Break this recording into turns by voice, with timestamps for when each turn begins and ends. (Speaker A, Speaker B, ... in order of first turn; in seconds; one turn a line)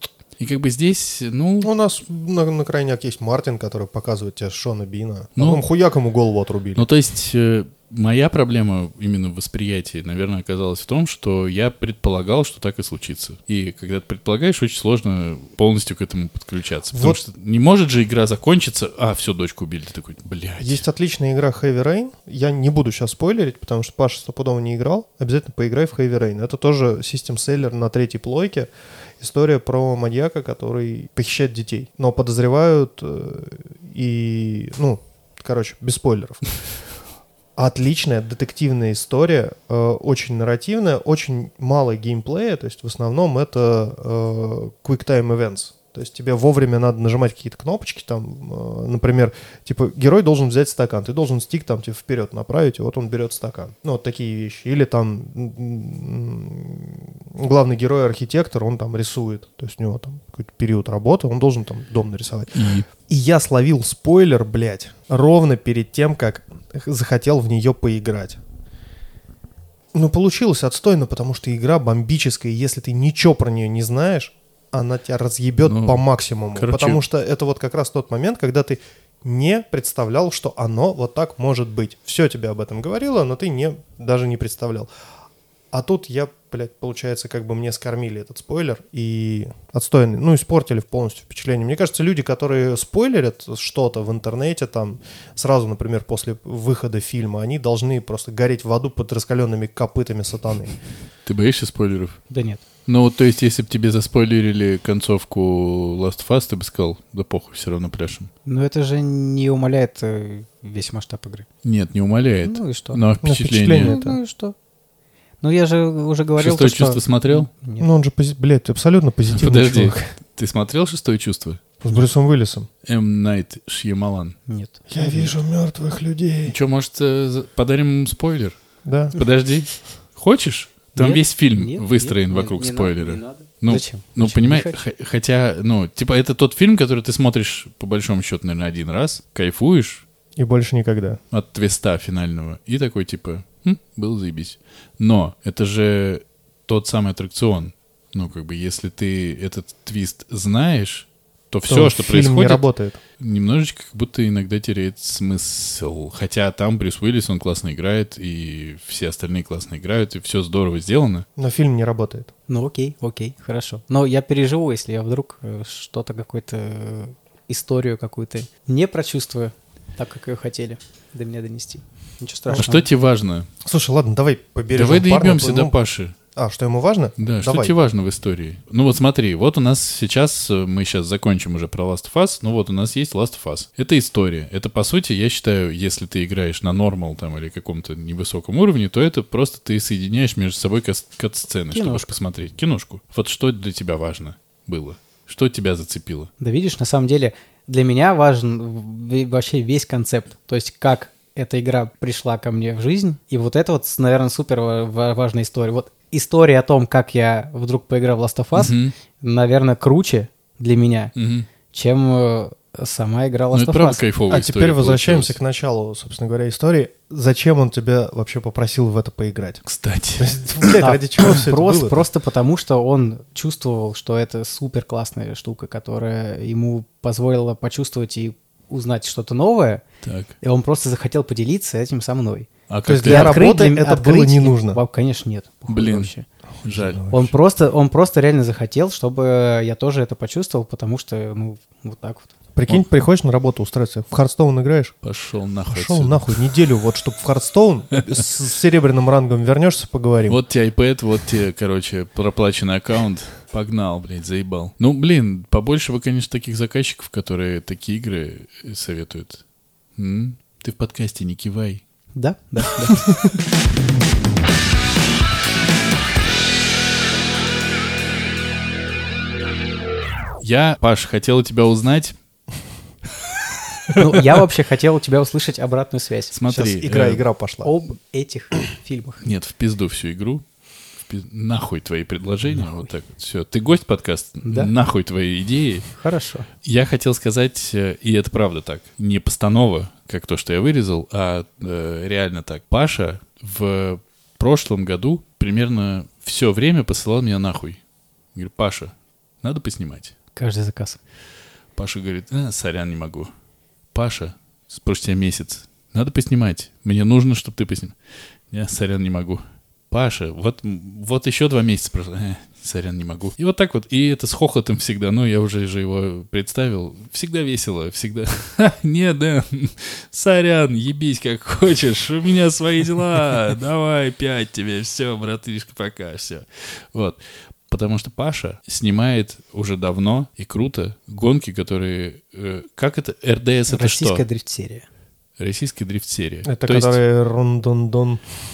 Speaker A: 0.4-1.7
Speaker B: 1.6-6.9
Speaker A: 5.4-5.6
Speaker A: 6.8-20.9
Speaker B: 16.9-17.2
Speaker B: 20.6-36.5
Speaker B: 37.6-68.4
Speaker A: 62.5-62.9
Speaker B: 69.9-84.9
Speaker A: 75.6-76.0
Speaker A: 76.5-77.0
Speaker B: 85.7-100.8
Speaker A: 101.3-102.2
Speaker C: 102.3-102.6
Speaker A: 102.9-108.3
Speaker C: 108.5-111.5
Speaker A: 111.6-114.0
Speaker C: 112.4-113.0
Speaker B: 113.2-114.2
Speaker C: 113.8-114.5
Speaker C: 115.4-117.9
Speaker A: 116.4-117.5
Speaker B: 117.8-120.1
Speaker A: 119.3-121.6
Speaker B: 121.8-122.7
Speaker A: 122.8-124.4
Speaker C: 124.5-125.3
Speaker B: 124.9-126.5
Speaker A: 126.5-128.6
Speaker B: 128.8-129.2
Speaker A: 129.1-140.1
Speaker C: 131.0-134.8
Speaker B: 140.4-141.2
Speaker A: 141.3-152.7
Speaker B: 151.7-153.0
Speaker A: 153.2-161.3
Speaker B: 161.4-162.3
Speaker C: 162.5-172.8
Speaker A: 172.5-173.5
Speaker B: 173.6-175.8
Speaker A: 174.7-176.2
Speaker B: 176.3-177.8
Speaker A: 177.2-196.3
Speaker C: 191.7-192.1
Speaker C: 196.4-211.1
Speaker A: 208.6-208.9
Speaker A: 211.2-211.5
Speaker C: 211.7-214.0
Speaker A: 213.5-215.4
Speaker B: 214.3-219.6
Speaker A: 219.6-220.8
Speaker B: 220.2-222.1
Speaker C: 220.8-229.8
Speaker A: 230.0-230.3
Speaker C: 230.4-232.5
Speaker A: 232.7-233.5
Speaker B: 232.9-234.8
Speaker C: 233.0-236.3
Speaker A: 235.7-236.1
Speaker A: 236.6-237.1
Speaker B: 236.7-237.3
Speaker C: 237.1-242.3
Speaker B: 242.6-244.9
Speaker A: 245.0-246.4
Speaker B: 245.7-250.4
Speaker A: 250.3-259.4
Speaker A: 260.0-261.8
Speaker C: 262.1-263.2
Speaker A: 270.4-272.2
Speaker C: 273.9-276.4
Speaker A: 276.3-277.2
Speaker B: 276.5-277.7
Speaker C: 277.6-279.2
Speaker A: 279.2-280.4
Speaker A: 281.0-285.9
Speaker C: 284.5-284.7
Speaker C: 285.9-286.5
Speaker A: 286.6-297.8
Speaker A: 298.4-300.1
Speaker C: 300.4-301.0
Speaker A: 301.8-303.3
Speaker A: 303.9-308.0
Speaker A: 308.5-334.2
Speaker C: 333.7-334.9
Speaker A: 335.4-337.0
Speaker B: 336.4-338.2